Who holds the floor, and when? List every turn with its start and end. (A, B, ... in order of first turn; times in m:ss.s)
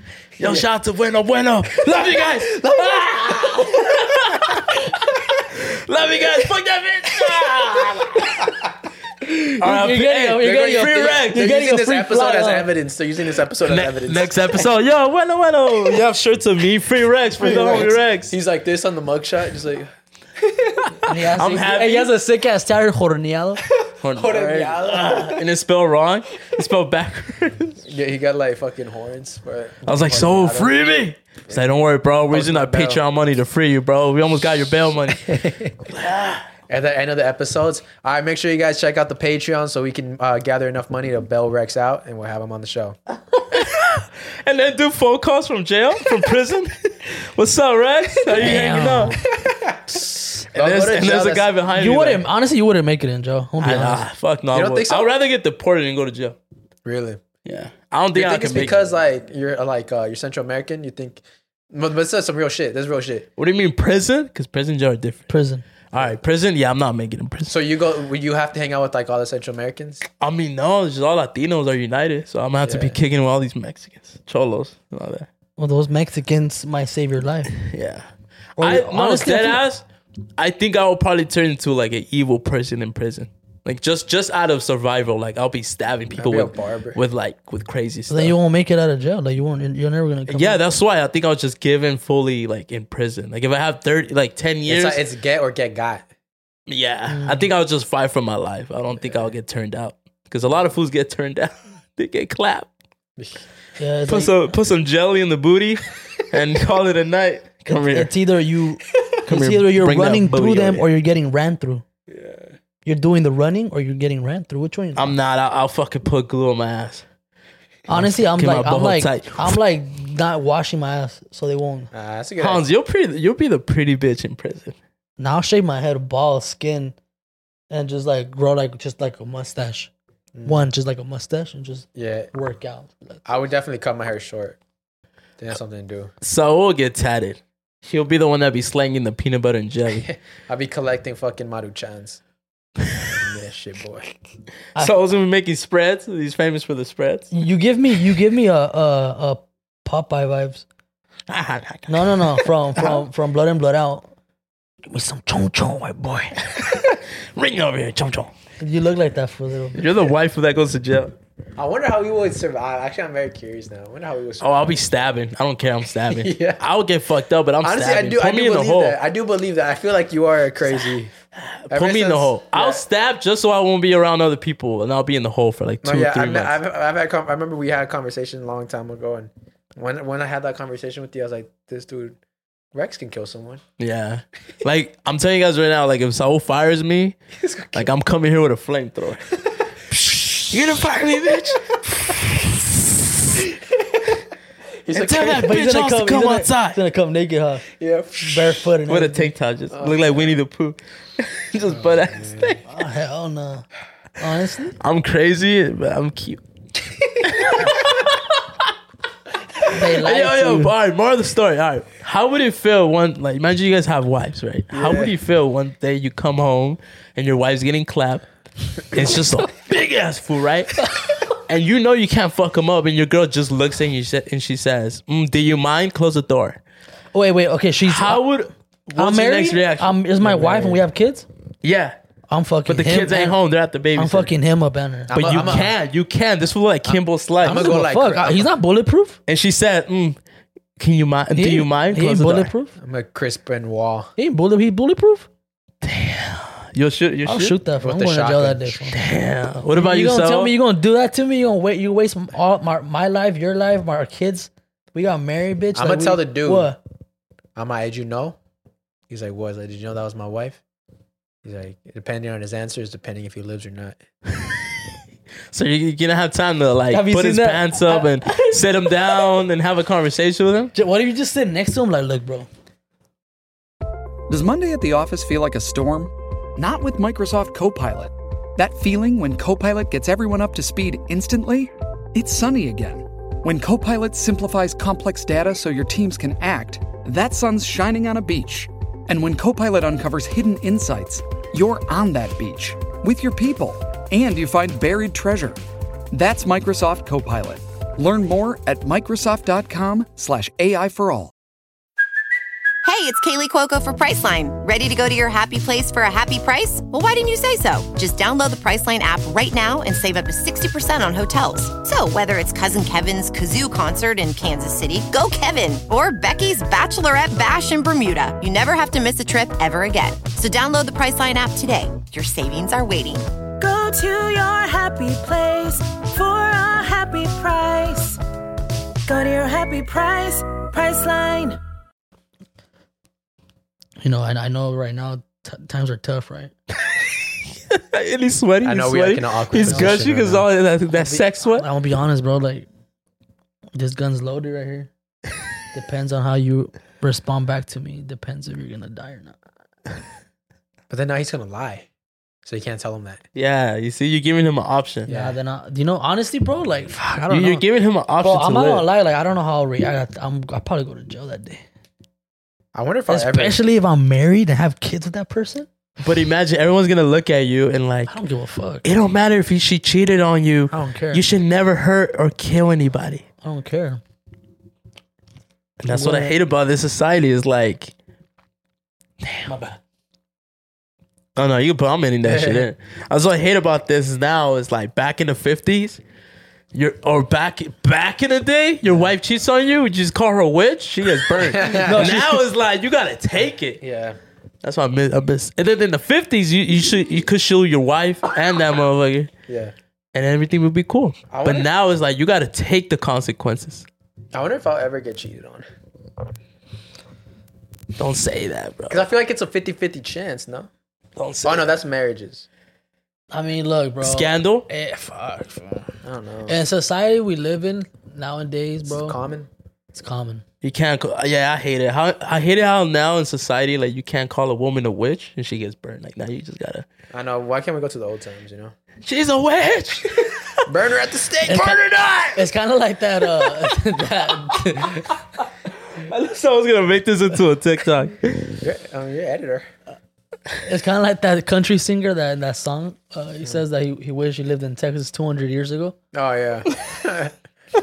0:00.4-0:08.6 A
0:09.6-0:11.5 A
0:09.6-0:12.7 B
0:10.4-0:14.7 C
0:13.7-0:18.3 A
0:17.4-0:19.9 C
0:20.4-0:20.9 C
0:21.1-0:23.6 B
0:21.4-0:22.1 A
0:24.0-0:27.8 A
0:24.1-0:25.4 C
0:27.8-0:30.8 C
0:29.8-0:35.3 A
0:32.3-0:33.0 C
0:35.3-0:35.7 C
0:35.9-0:36.5 A
0:36.7-0:43.0 C
0:43.5-0:49.2 A
0:48.4-0:49.2 B
0:49.4-0:51.5 C
0:50.5-0:52.2 A
0:51.8-0:54.0 B
0:53.6-0:56.4 A
0:54.5-0:55.1 C
0:56.8-0:57.3 C
0:57.4-0:58.9 A
0:58.1-1:03.3 C
1:03.4-1:05.3 A
1:05.3-1:05.6 B
1:05.9-1:07.6 A
1:07.5-1:10.0 C
1:10.2-1:15.3 A
1:12.6-1:13.0 C
1:15.6-1:17.5 B
1:17.5-1:18.1 A
1:18.6-1:19.6 B
1:18.6-1:19.8 A
1:20.4-1:28.4 A
1:26.2-1:27.0 C
1:28.1-1:30.6 B
1:30.3-1:35.0 A
1:34.7-1:36.1 C
1:36.7-1:42.7 A
1:37.1-1:37.4 B
1:39.0-1:39.3 C
1:43.2-1:43.4 C
1:43.8-1:44.4 B
1:44.1-1:48.1 A
1:47.7-1:51.8 B
1:49.3-1:50.9 A
1:52.1-1:52.4 C
1:52.8-1:55.1 B
1:55.0-1:57.0 A
1:57.9-2:01.9 B
1:57.9-1:59.6 A
2:01.9-2:02.6 C
2:02.4-2:04.8 A
2:05.2-2:06.9 B
2:07.7-2:09.9 B
2:10.3-2:10.6 C
2:10.4-2:13.2 B
2:11.9-2:12.3 C
2:13.3-2:14.6 C
2:15.4-2:16.1 C
2:16.2-2:20.1 A
2:20.0-2:22.2 C
2:23.1-2:24.1 C
2:24.8-2:27.3 A
2:27.3-2:30.6 B
2:31.3-2:33.0 A
2:31.9-2:34.1 B
2:34.9-2:36.4 B
2:36.5-2:38.3 A
2:38.6-2:39.8 B
2:39.7-2:41.1 A
2:41.6-2:45.0 C
2:44.4-2:49.0 A
2:46.1-2:46.6 C
2:47.6-2:51.1 C
2:51.6-2:56.6 A
2:51.7-2:52.8 C
2:55.8-3:02.2 C
3:02.7-3:03.6 C
3:03.8-3:07.2 A
3:07.4-3:07.9 C
3:07.7-3:09.3 A
3:10.3-3:12.8 A
3:14.8-3:15.6 C
3:14.9-3:16.8 A
3:15.2-3:17.6 B
3:17.8-3:18.4 C
3:18.2-3:19.3 B
3:18.9-3:22.6 A
3:19.7-3:20.4 C
3:21.6-3:22.6 C
3:22.6-3:23.6 B
3:24.2-3:24.8 B
3:24.8-3:26.4 A
3:27.2-3:28.2 A
3:29.7-3:30.7 B
3:29.7-3:38.2 A
3:34.7-3:35.1 C
3:38.8-3:46.6 A
3:47.1-3:48.2 B
3:47.8-3:50.8 A
3:49.0-3:51.3 B
3:51.6-3:52.0 A
3:52.3-3:53.4 B
3:52.6-3:54.3 A
3:53.9-3:55.6 B
3:55.1-3:55.7 C
3:55.1-3:57.7 A
3:56.8-3:58.5 C
3:57.5-3:59.2 B
3:59.3-4:00.2 A
4:00.8-4:02.5 A
4:01.4-4:02.7 B
4:02.8-4:04.1 C
4:04.2-4:05.3 B
4:05.8-4:07.6 A
4:07.3-4:09.0 B
4:07.8-4:08.8 C
4:08.9-4:10.5 A
4:09.8-4:16.8 B
4:15.7-4:16.7 C
4:17.6-4:18.4 C
4:19.1-4:20.6 C
4:21.4-4:24.0 C
4:24.4-4:24.7 A
4:25.5-4:30.7 A
4:26.9-4:28.6 B
4:30.7-4:32.5 B
4:34.3-4:55.6 D
4:56.1-5:01.3 D
5:02.8-5:23.3 E
5:23.6-5:28.2 F
5:29.1-5:31.6 F
5:34.0-5:36.5 B
5:36.8-5:41.6 A
5:38.6-5:40.5 C
5:39.6-5:40.0 B
5:40.9-5:42.6 B
5:43.7-5:44.9 B
5:45.7-5:49.4 B
5:50.9-5:51.9 C
5:52.4-5:53.2 C
5:53.4-5:55.1 A
5:55.1-5:55.4 C
5:55.1-5:57.6 B
5:57.3-5:58.9 A
5:58.2-6:01.6 B
6:02.7-6:03.6 C
6:03.1-6:05.7 B
6:06.0-6:08.1 A
6:08.1-6:08.8 B
6:08.8-6:13.2 A
6:10.7-6:11.2 B
6:13.4-6:14.0 B
6:15.8-6:17.9 A
6:15.9-6:16.4 B
6:19.2-6:19.5 A
6:19.4-6:19.8 B
6:21.4-6:26.0 A
6:22.2-6:22.6 C
6:26.7-6:33.8 A
6:31.4-6:32.2 C
6:31.7-6:32.4 B
6:33.8-6:34.2 C
6:34.6-6:39.3 A
6:39.5-6:39.7 C
6:40.1-6:43.8 A
6:41.3-6:41.7 C
6:44.3-6:45.6 C
6:48.0-6:49.0 A
6:48.9-6:50.7 C
6:51.2-6:51.7 A
6:51.4-6:52.4 C
6:53.3-6:55.9 B
6:54.0-6:54.6 A
6:56.0-6:56.6 C
6:56.5-6:59.2 B
6:58.8-6:59.5 C
6:59.9-7:00.4 B
7:00.6-7:06.8 A
7:07.1-7:08.7 C
7:09.0-7:10.6 A
7:10.6-7:11.8 C
7:11.5-7:11.8 B
7:11.5-7:12.4 A
7:12.3-7:15.0 B
7:13.4-7:13.7 A
7:15.9-7:18.6 A
7:18.6-7:19.7 C
7:20.6-7:25.9 B
7:26.1-7:27.3 C